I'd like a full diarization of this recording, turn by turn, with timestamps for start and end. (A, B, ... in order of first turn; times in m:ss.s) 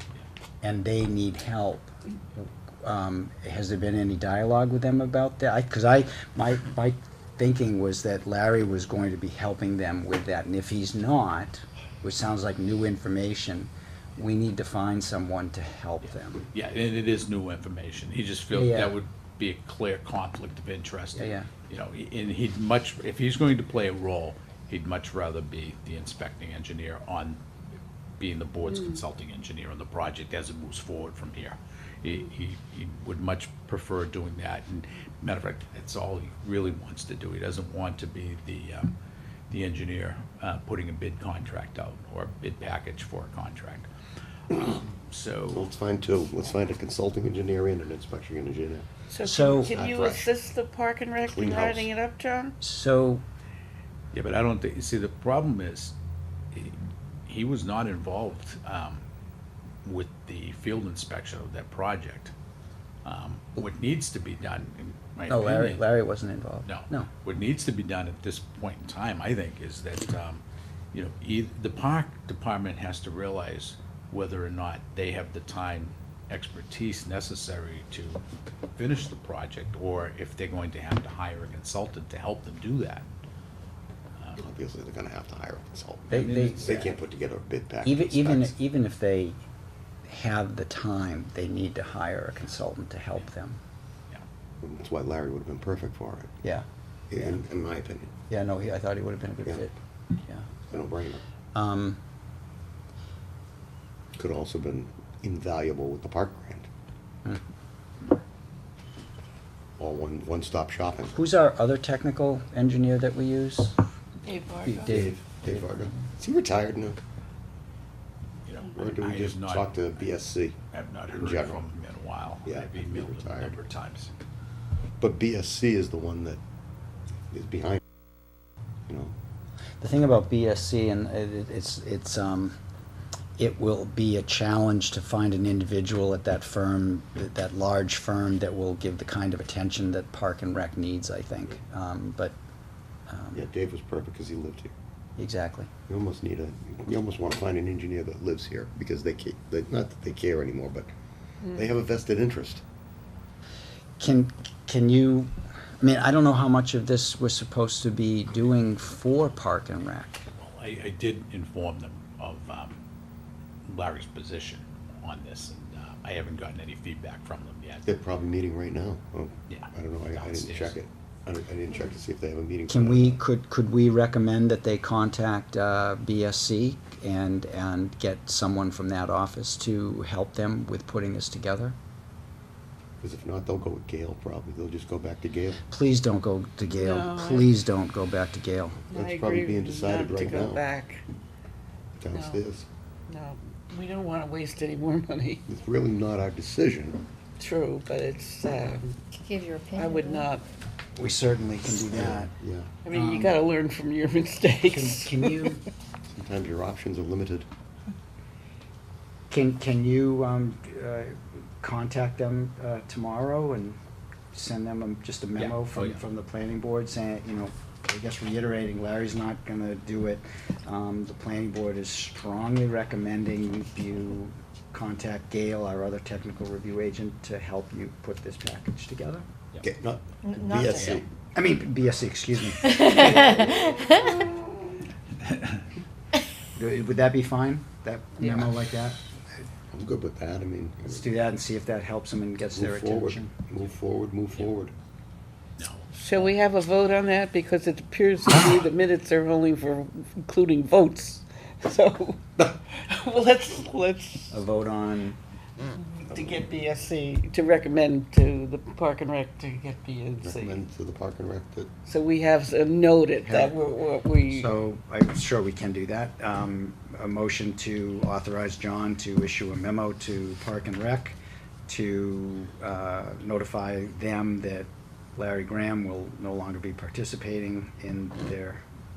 0:00.6-0:16.4 A
0:16.5-0:27.4 B
0:18.5-0:18.9 A
0:21.1-0:21.5 A
0:28.2-0:38.9 B
0:39.5-0:43.9 B
0:44.5-0:45.7 B
0:45.5-0:48.9 C
0:49.1-0:52.5 D
0:49.2-0:49.7 A
0:49.5-0:50.3 C
0:51.2-0:51.9 C
0:52.6-0:53.2 A
0:54.1-0:55.9 B
0:56.5-0:59.0 B
0:59.8-1:02.3 B
1:03.0-1:05.8 B
1:05.3-1:07.1 A
1:06.6-1:18.2 B
1:18.7-1:23.0 B
1:24.4-1:28.5 C
1:26.1-1:26.8 B
1:26.1-1:26.9 A
1:27.8-1:29.4 A
1:30.1-1:33.6 A
1:34.6-1:36.3 C
1:37.1-1:38.1 C
1:38.3-1:40.5 A
1:40.7-1:41.2 C
1:41.5-1:42.0 A
1:44.2-1:46.7 C
1:49.8-1:51.2 C
1:51.1-1:53.8 A
1:54.2-1:54.9 D
1:54.6-1:56.1 A
1:54.8-1:57.0 C
1:58.4-2:00.1 B
1:58.7-2:01.6 C
2:00.7-2:04.1 B
2:02.4-2:03.6 C
2:05.0-2:06.4 C
2:07.3-2:07.8 C
2:08.9-2:09.1 C
2:09.8-2:12.6 A
2:13.4-2:22.4 A
2:23.1-2:23.4 A
2:23.3-2:24.7 C
2:25.2-2:25.7 A
2:25.9-2:30.9 C
2:31.5-2:32.6 C
2:34.0-2:40.2 A
2:40.4-2:42.8 B
2:43.6-2:47.9 B
2:47.8-2:53.2 C
2:49.5-2:50.8 B
2:52.7-3:01.8 A
3:03.0-3:05.6 C
3:05.7-3:08.8 A
3:06.7-3:07.5 D
3:08.9-3:10.6 C
3:08.9-3:11.0 D
3:12.0-3:12.7 C
3:12.1-3:12.4 D
3:13.1-3:15.4 D
3:15.5-3:17.0 C
3:17.4-3:19.2 D
3:19.2-3:20.3 E
3:19.7-3:20.4 D
3:21.0-3:22.3 A
3:21.9-3:22.7 C
3:22.8-3:25.5 D
3:22.9-3:23.4 A
3:24.7-3:25.6 A
3:26.1-3:27.5 C
3:29.3-3:33.8 A
3:34.3-3:49.2 A
3:35.4-3:36.0 B
3:49.6-3:51.0 C
3:50.2-3:50.8 E
3:50.8-3:51.0 B
3:51.3-3:53.5 A
3:52.8-3:53.9 C
3:53.2-3:54.2 E
3:55.2-3:55.6 B
3:56.5-3:59.0 A
3:59.7-4:01.1 C
4:00.9-4:03.3 A
4:02.5-4:04.7 C
4:05.6-4:05.8 B
4:05.9-4:14.4 D
4:14.3-4:15.2 A
4:15.9-4:20.6 D
4:16.1-4:16.5 C
4:20.2-4:21.7 C
4:21.9-4:24.5 D
4:24.3-4:38.6 A